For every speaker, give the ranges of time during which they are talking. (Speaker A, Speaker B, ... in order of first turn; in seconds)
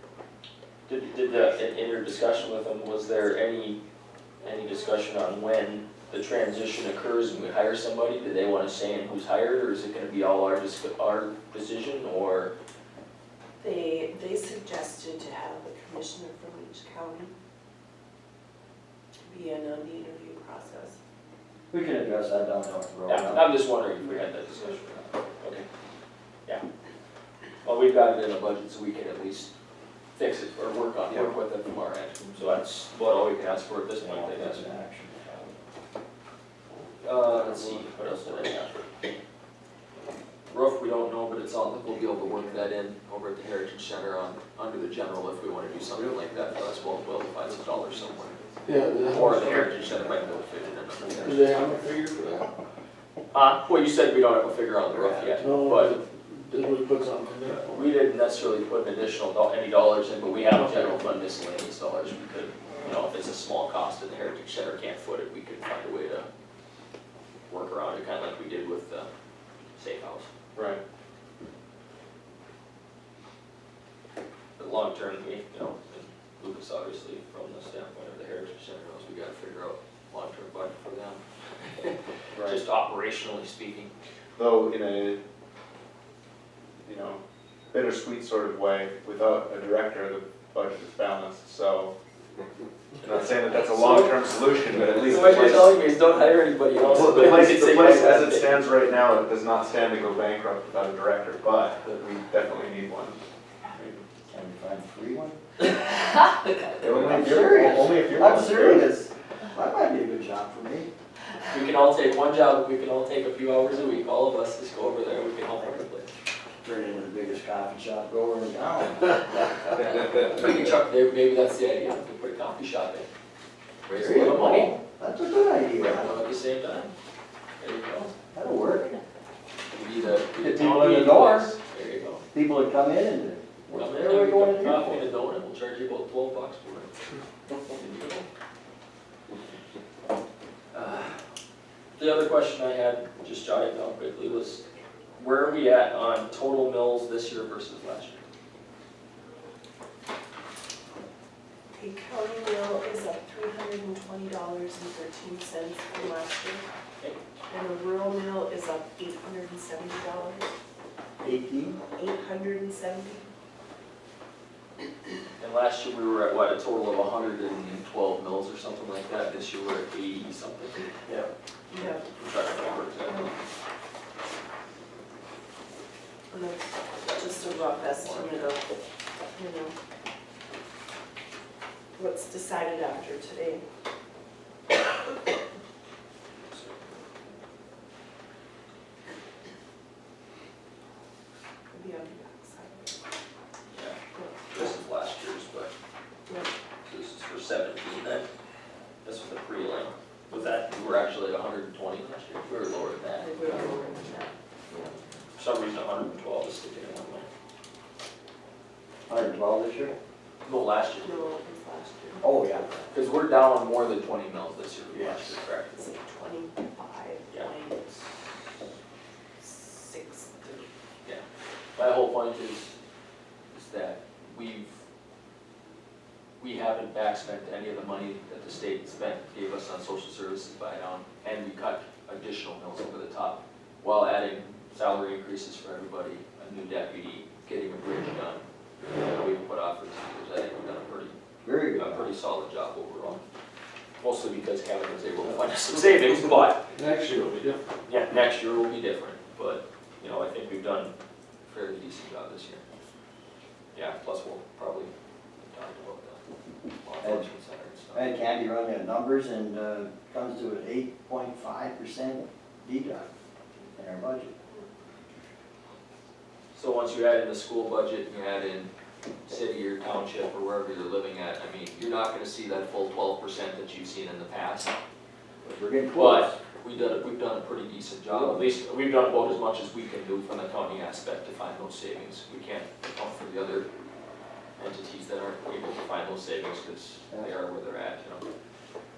Speaker A: 0.9-3.8, 4.4-12.5, 23.1-25.6, 27.6-29.5, 30.1-34.7, 37.0-38.9, 40.5-48.4, 49.1-51.5, 53.3-55.9, 57.5-66.3, 67.5-69.1, 69.8-70.3, 74.6-83.9, 93.8-94.1, 94.9-98.6, 107.4-107.8, 111.5-116.1, 119.7-123.1, 123.8-124.8, 125.8-126.9, 127.6-128.1, 129.7-132.2, 133.7-136.9, 137.7-138.3, 140.7-141.2, 141.9-144.6, 145.2-148.2, 165.4-170.8, 171.9-173.3, 177.0-178.5, 186.4-186.9, 193.7-195.7, 196.8-198.3, 199.0-203.6, 205.3-207.3, 210.4-211.2, 212.9-215.7, 221.8-222.8, 223.5-224.8, 226.4-241.1, 241.7-243.2, 244.0-246.7, 247.8-250.9, 251.5-252.6, 253.7-256.2, 256.8-258.1, 266.5-268.7, 269.2-274.7, 275.9-283.7, 284.6-288.2
Speaker B: 13.6-17.3, 19.3-21.0, 151.7-156.7, 157.5-160.5, 161.9-163.3, 171.7-172.1, 172.8-173.3, 176.3-178.8, 179.3-179.7, 181.9-183.6, 191.7-193.0, 194.1-194.4, 196.3-196.5, 203.2-204.9, 211.0-212.4, 215.7-218.3, 219.4-220.7
Speaker C: 21.7-23.5, 34.0-35.6, 37.4-38.5, 42.0-42.6, 45.9-46.4, 49.3-49.7, 51.1-51.3, 54.9-55.3, 104.3-105.4, 106.8-110.9, 116.6-119.3, 124.0-126.2, 128.3-129.0, 130.3-131.6, 132.3-135.1, 161.2-161.8, 209.1-209.9, 212.2-212.8, 214.9-215.4, 241.4-242.1, 257.0-257.3, 257.9-263.1, 263.7-264.3, 275.4-276.4, 278.1-278.5
Speaker D: 48.6-49.8, 51.2-52.5, 55.4-57.8, 246.7-247.6
Speaker E: 70.5-70.8, 82.3-82.6, 84.3-85.2, 86.8-87.2, 87.7-91.9, 93.0-95.8, 96.9-104.0, 106.8-108.9